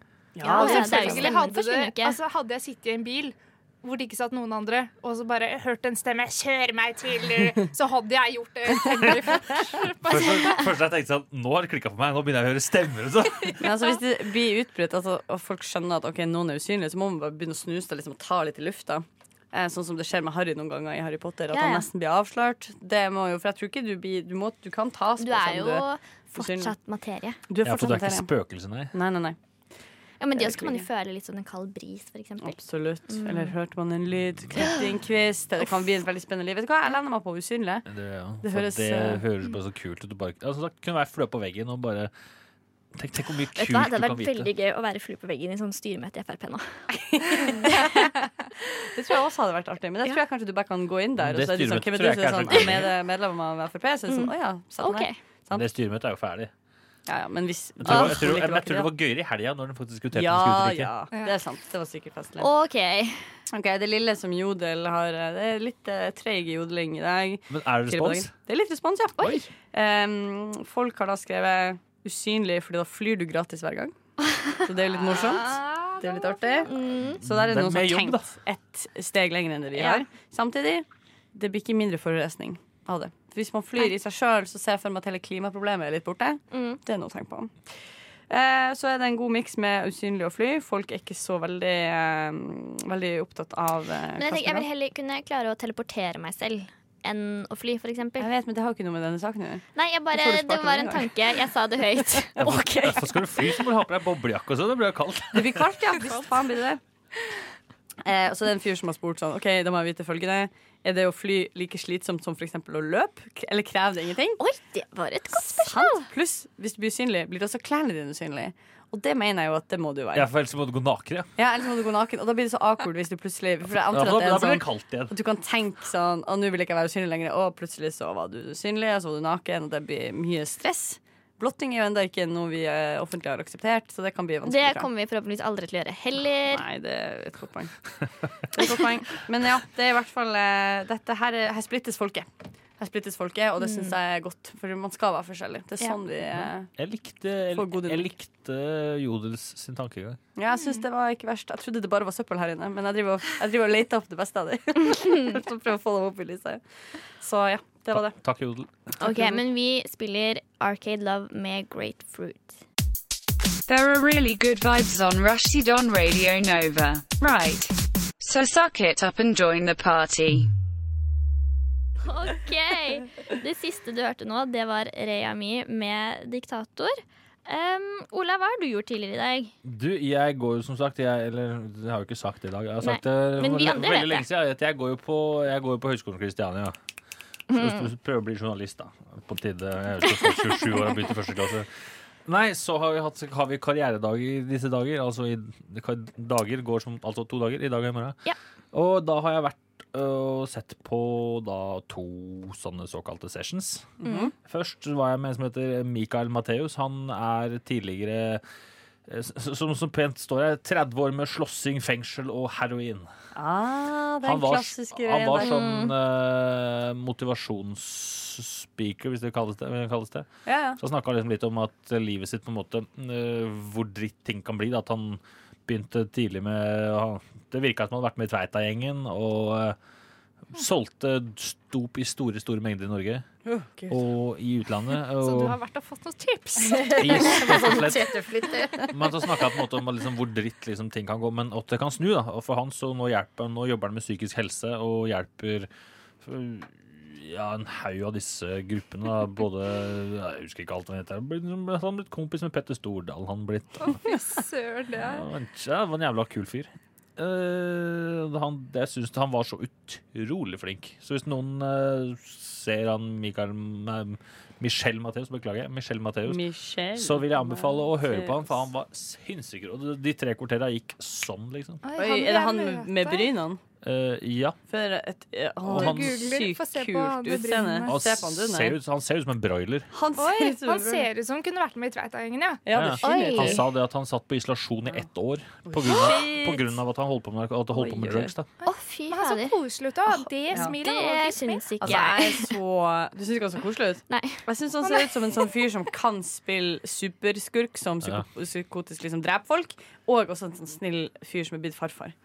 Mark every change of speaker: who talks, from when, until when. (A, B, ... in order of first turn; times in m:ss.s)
0:00.4-0:01.3 A
0:00.4-0:02.2 B
0:00.4-0:10.7 C
0:10.0-0:13.6 D
0:13.6-0:26.7 A
0:21.5-0:21.9 B
0:25.2-0:27.4 B
0:27.5-0:28.3 A
0:27.6-0:28.9 D
0:28.9-0:29.4 A
0:30.2-0:33.5 B
0:30.4-0:30.9 A
0:32.4-0:37.8 A
0:34.6-0:34.8 B
0:37.9-0:42.1 D
0:38.4-0:39.2 A
0:43.0-0:44.5 D
0:43.5-0:46.7 B
0:46.9-0:48.1 A
0:47.2-0:48.1 B
0:48.7-0:55.7 A
0:51.2-0:52.9 D
0:54.8-0:55.2 B
0:55.5-0:56.5 D
0:57.1-0:58.9 A
0:57.8-1:00.9 D
1:00.1-1:02.5 A
1:02.4-1:03.2 B
1:03.5-1:13.9 A
1:07.5-1:08.3 D
1:09.2-1:09.5 B
1:14.6-1:27.5 A
1:15.1-1:16.7 C
1:16.6-1:17.2 B
1:17.2-1:18.3 D
1:19.7-1:20.0 B
1:26.5-1:26.8 B
1:28.3-1:34.7 A
1:34.2-1:38.3 B
1:38.2-1:41.1 A
1:39.7-1:43.0 B
1:42.4-1:43.0 A
1:42.4-1:45.6 D
1:45.3-1:46.8 A
1:48.0-1:54.4 A
1:54.4-1:56.0 B
1:55.3-2:00.3 A
2:00.1-2:01.3 D
2:01.4-2:14.9 A
2:03.8-2:05.1 D
2:14.4-2:16.6 B
2:16.5-2:17.7 A
2:18.5-2:26.7 A
2:23.6-2:23.9 B
2:26.8-2:30.2 D
2:27.5-2:28.1 A
2:30.4-2:36.6 A
2:37.2-2:38.2 A
2:37.9-2:38.7 D
2:39.0-2:42.6 B
2:39.0-2:39.4 A
2:43.7-2:50.5 E
2:52.0-2:59.5 B
2:59.6-3:06.7 D
3:02.8-3:04.2 B
3:07.5-3:07.8 B
3:07.5-3:11.7 D
3:12.2-3:18.2 D
3:18.7-3:23.9 D
3:24.0-3:24.3 A
3:24.0-3:24.3 B
3:24.4-3:28.4 D
3:29.1-3:33.1 D
3:33.3-3:35.6 A
3:34.2-3:40.3 D
3:35.4-3:35.9 B
3:40.4-3:40.8 A
3:40.8-3:49.8 D
3:50.5-3:53.2 D
3:53.4-3:54.0 A
3:53.9-3:55.6 D
3:55.2-3:57.4 C
3:56.7-3:59.0 A
3:56.8-3:58.2 D
3:58.9-4:05.7 D
4:06.2-4:14.0 D
4:13.8-4:15.2 C
4:15.0-4:26.4 D
4:26.2-4:28.5 A
4:27.0-4:31.8 D
4:31.8-4:33.3 C
4:32.0-4:33.6 A
4:33.8-4:34.6 D
4:34.7-4:38.8 A
4:35.7-4:38.0 C
4:35.7-4:36.2 D
4:37.9-4:39.9 D
4:39.9-4:41.1 A
4:40.2-4:42.6 C
4:42.6-4:43.6 A
4:42.7-4:48.5 D
4:43.0-4:43.6 B
4:45.7-4:46.7 A
4:47.7-4:48.3 A
4:48.6-4:49.6 B
4:48.6-4:51.9 C
4:50.6-4:52.5 B
4:51.8-5:02.2 A
4:54.1-4:54.4 B